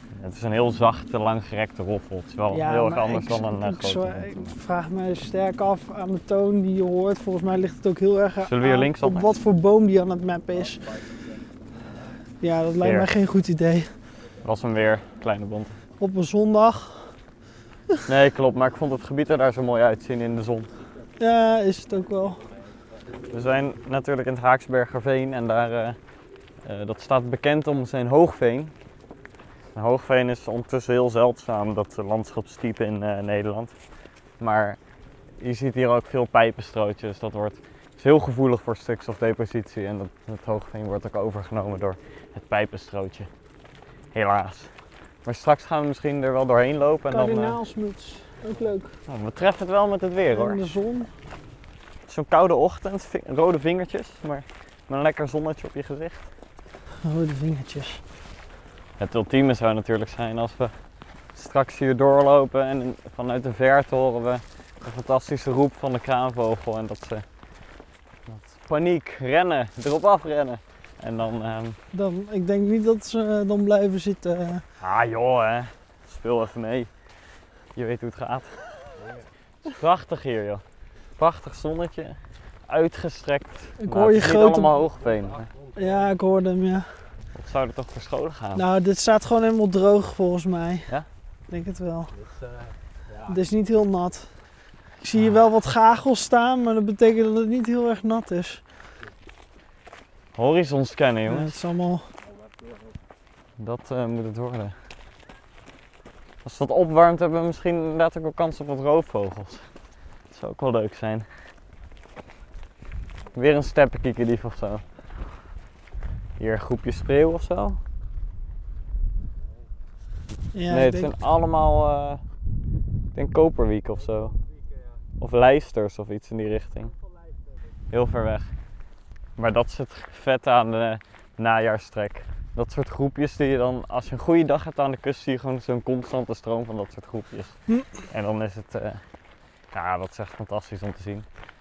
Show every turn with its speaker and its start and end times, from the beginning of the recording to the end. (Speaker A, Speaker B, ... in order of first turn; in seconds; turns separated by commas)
Speaker A: 0.1-4.5, Speaker B: 2.5-10.9, Speaker A: 8.4-9.3, Speaker B: 12.4-13.9, Speaker A: 12.8-13.1, Speaker A: 14.4-15.8, Speaker B: 16.0-17.1, Speaker A: 18.1-20.7, Speaker B: 21.2-22.4, Speaker A: 23.3-26.0, Speaker A: 26.6-28.7, Speaker A: 29.8-33.8, Speaker A: 34.4-34.8, Speaker A: 35.4-43.3, Speaker A: 44.1-44.7, Speaker A: 45.2-47.6, Speaker B: 47.1-49.0, Speaker A: 49.1-50.6, Speaker B: 50.3-51.1, Speaker A: 52.1-56.3, Speaker B: 57.0-58.0, Speaker A: 59.0-60.8, Speaker A: 61.3-67.2, Speaker A: 68.3-71.8, Speaker B: 71.9-74.6, Speaker A: 74.8-76.9, Speaker A: 77.8-78.6, Speaker C: 79.0-79.2, Speaker A: 79.6-80.6, Speaker A: 81.2-85.5, Speaker B: 83.8-84.7, Speaker C: 84.8-86.1, Speaker B: 85.8-87.0, Speaker A: 87.3-88.6, Speaker B: 88.5-90.9, Speaker B: 91.5-92.1, Speaker C: 92.1-93.4, Speaker B: 93.3-94.3, Speaker B: 95.0-98.6, Speaker A: 100.3-101.6, Speaker B: 101.3-102.1, Speaker C: 102.4-102.9, Speaker A: 103.6-104.8, Speaker A: 106.4-109.7, Speaker A: 110.3-111.3, Speaker A: 113.3-114.8, Speaker A: 116.4-117.8, Speaker B: 120.5-121.1, Speaker A: 120.7-122.2, Speaker A: 123.1-124.3, Speaker C: 124.0-125.0, Speaker A: 125.2-126.9, Speaker A: 127.9-128.5, Speaker A: 129.4-139.0, Speaker A: 139.7-141.3